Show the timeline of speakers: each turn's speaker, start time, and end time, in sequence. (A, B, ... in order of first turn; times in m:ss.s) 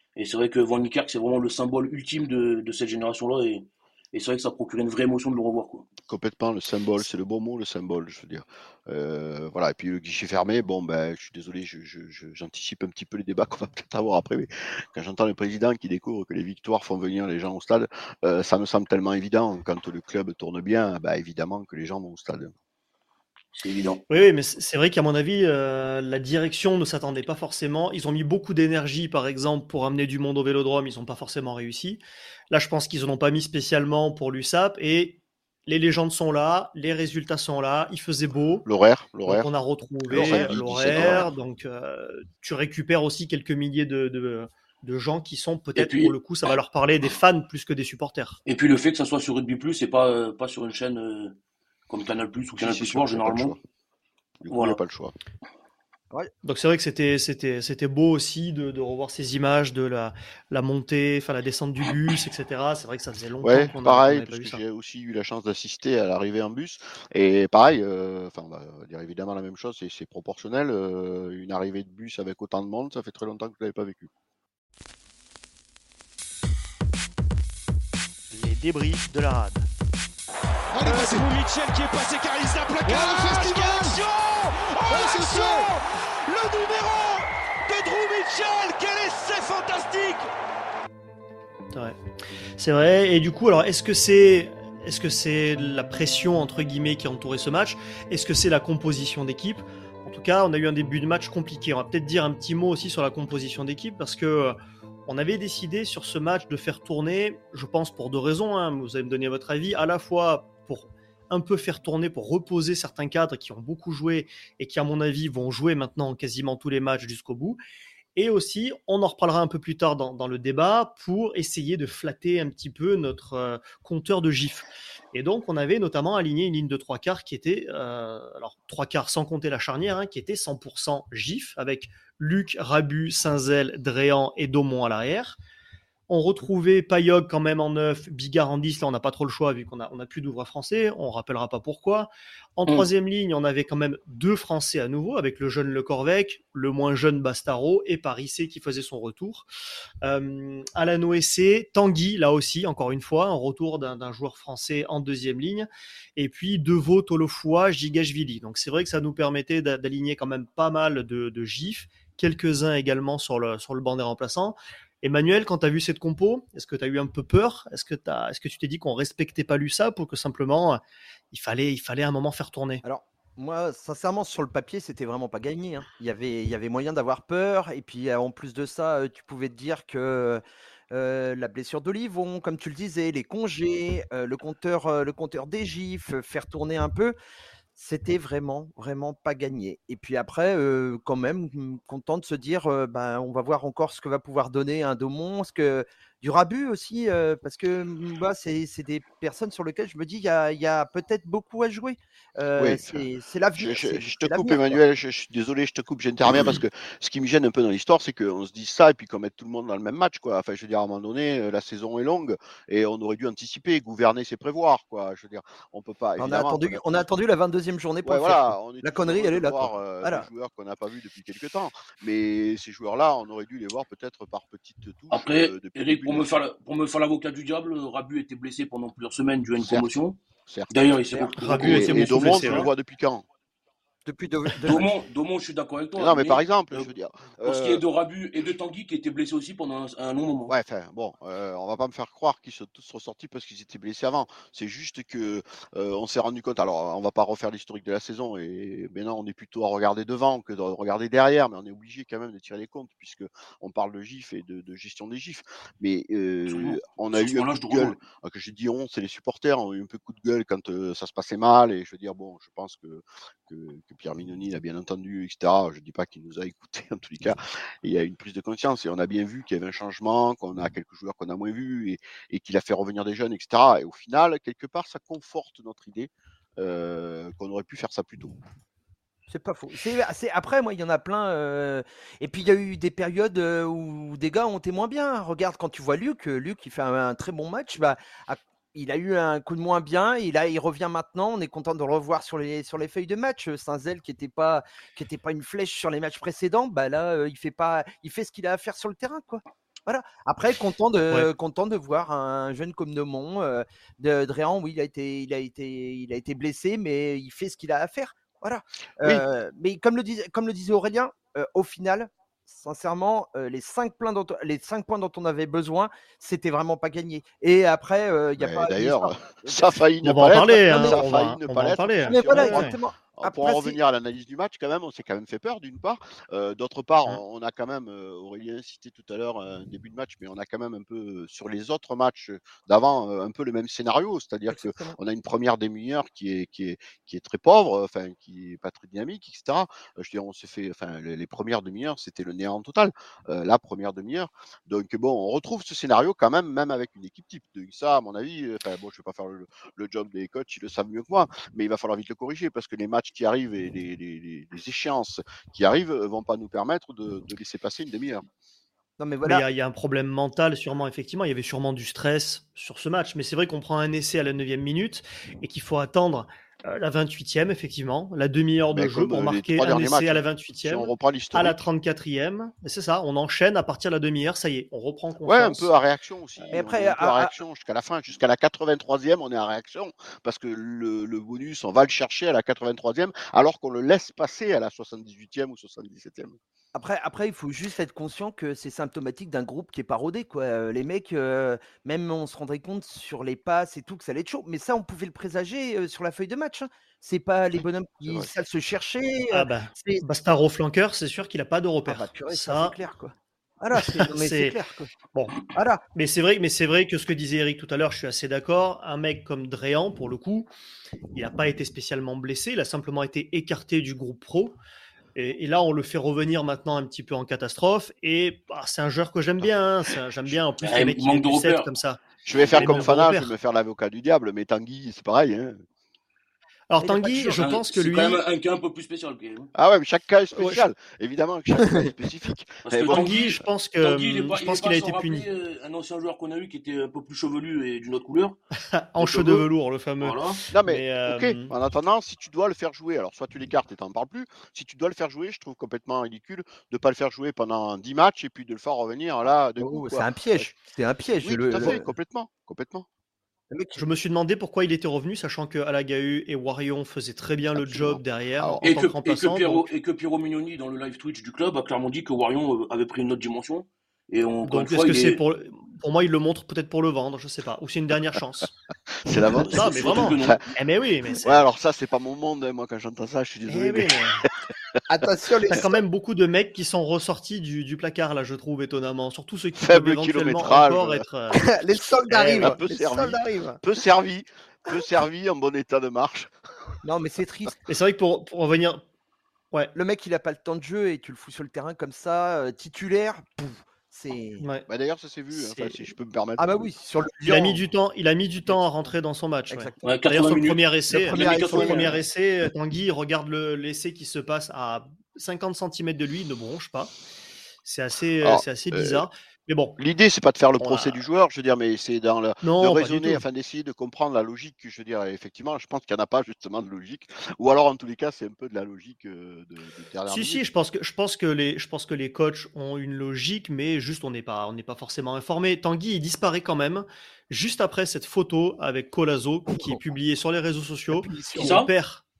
0:00.2-0:05.9 A
0:06.1-0:22.5 B
0:23.5-0:24.0 A
0:24.1-0:38.6 C
0:38.6-0:39.5 B
0:39.2-0:48.4 C
0:40.1-0:41.3 B
0:40.1-0:41.3 D
0:45.7-0:46.1 A
0:48.4-0:51.4 A
0:51.9-0:53.5 A
0:52.5-0:53.6 B
0:54.4-0:55.1 B
0:54.5-0:54.8 A
0:56.4-1:04.6 C
1:03.4-1:14.1 B
1:18.3-1:19.7 C
1:20.7-1:30.3 E
1:31.7-1:32.0 C
1:32.6-1:57.6 C
1:58.2-2:15.4 C
2:16.1-2:29.4 C
2:30.0-2:52.8 C
2:52.8-3:07.2 D
3:07.8-3:24.8 D
3:22.6-3:23.0 B
3:23.6-3:37.0 B
3:36.2-3:40.3 D
3:38.0-3:46.3 B
3:45.1-3:50.2 A
3:49.6-3:53.2 B
3:50.7-3:52.7 A
3:51.4-3:52.7 C
3:54.0-3:54.9 D
3:54.6-3:56.9 A
3:56.0-3:57.8 B
3:57.4-4:00.5 A
4:00.5-4:38.4 B
4:16.5-4:18.0 A
4:39.3-5:19.6 D
5:18.4-5:58.2 B
5:20.0-5:22.8 C
5:20.7-5:21.0 D
5:22.1-5:23.8 D
5:34.5-5:35.0 D
5:59.0-5:59.4 D
5:59.2-6:15.7 C
6:08.7-6:11.6 B
6:15.2-6:26.4 B
6:16.5-6:17.3 D
6:26.7-6:40.0 D
6:39.3-6:42.8 C
6:41.8-6:44.9 D
6:43.7-6:44.6 C
6:45.1-6:45.4 C
6:45.5-6:45.8 D
6:45.9-6:50.5 C
6:51.1-6:54.6 C
6:55.1-7:02.0 C
7:00.6-7:01.7 A
7:02.2-7:05.6 B
7:02.3-7:03.0 A
7:02.6-7:03.3 C
7:06.7-7:08.2 C
7:06.8-7:07.4 D
7:07.3-7:09.5 A
7:09.5-7:13.3 B
7:10.4-7:10.6 C
7:12.6-7:18.4 A
7:12.9-7:15.3 C
7:18.7-7:21.5 C
7:19.0-7:19.5 A
7:20.0-7:20.4 A
7:20.5-7:30.5 B
7:29.6-7:31.9 D
7:31.2-7:32.9 B
7:33.5-7:33.8 D
7:33.8-7:39.6 C
7:37.5-7:38.6 B
7:38.6-7:45.2 A
7:44.4-7:48.5 C
7:49.0-7:50.4 B
7:49.2-7:51.4 C
7:49.5-7:50.4 A
7:51.2-7:54.3 B
7:53.5-7:54.2 C
7:54.9-7:55.7 D
7:55.5-8:01.4 C
7:59.6-8:01.0 B
8:01.3-8:03.6 D
8:02.1-8:02.5 C
8:02.3-8:06.3 B
8:06.8-8:07.5 D
8:07.6-8:08.8 C
8:09.7-8:14.5 D
8:14.4-8:14.7 C
8:14.7-8:16.7 B
8:15.3-8:15.8 C
8:16.4-8:17.6 D
8:17.2-8:26.9 C
8:18.5-8:18.9 D
8:19.5-8:20.0 D
8:19.8-8:22.0 A
8:20.9-8:21.9 D
8:27.6-8:29.8 C
8:28.2-8:29.0 B
8:29.8-8:40.4 B
8:30.6-8:31.0 C
8:32.4-8:33.2 C
8:40.1-8:52.0 C
8:49.5-8:49.8 D
8:50.9-8:51.5 D
8:51.4-8:51.7 A